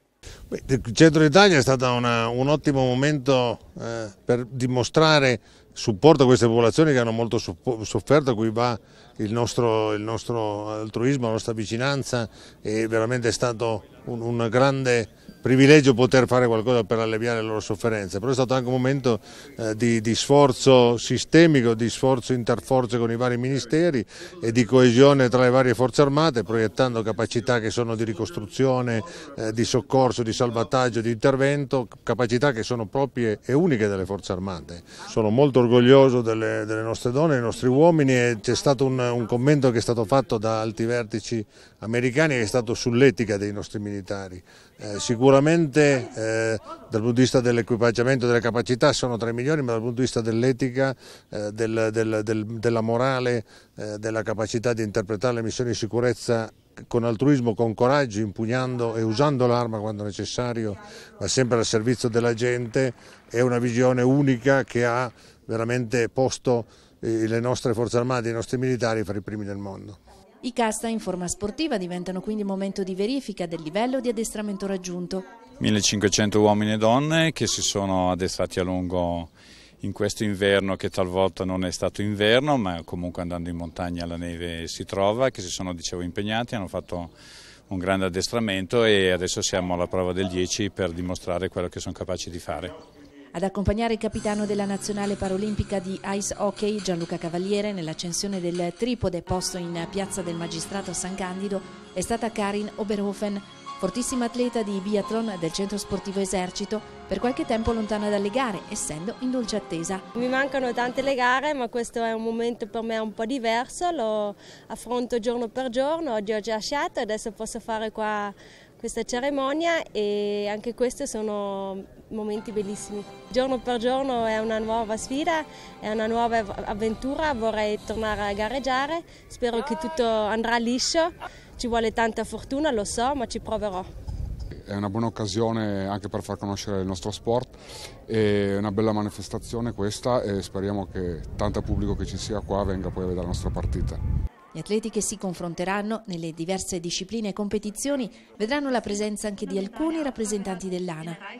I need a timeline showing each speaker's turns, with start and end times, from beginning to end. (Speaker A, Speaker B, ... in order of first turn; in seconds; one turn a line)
Speaker A: 0.5-70.0
Speaker B: 70.4-75.2
Speaker C: 75.6-87.1
Speaker C: 87.7-92.7
Speaker B: 93.3-110.0
Speaker D: 110.1-133.9
Speaker E: 134.7-137.6
Speaker E: 138.1-144.0
Speaker B: 144.5-151.2